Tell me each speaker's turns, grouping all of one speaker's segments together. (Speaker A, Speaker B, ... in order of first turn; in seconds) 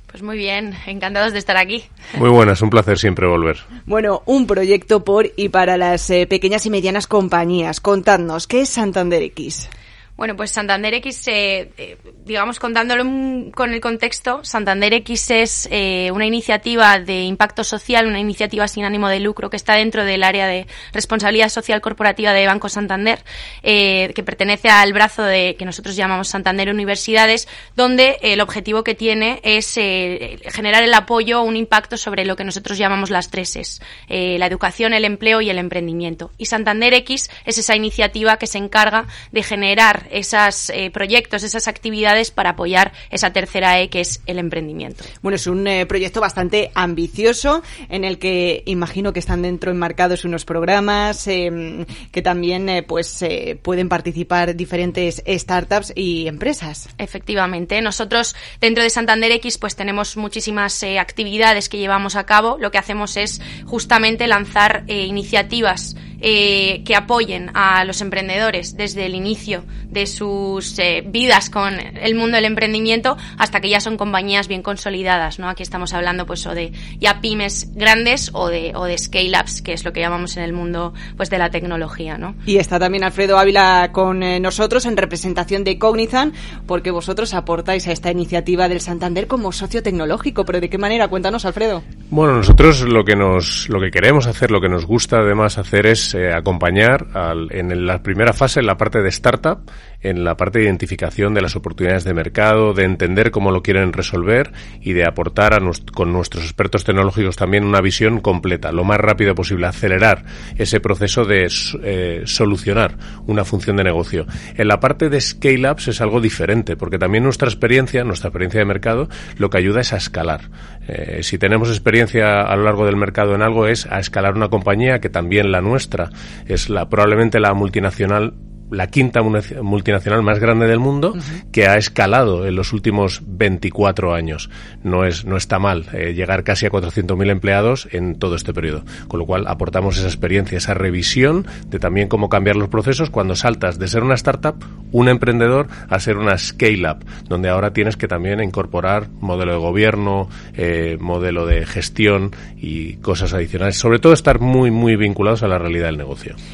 Speaker A: 0.1-2.1, 10.2-45.1, 57.0-82.4
Speaker B: 2.1-3.6, 92.1-156.4
Speaker C: 3.9-9.7, 45.2-56.9, 82.5-91.8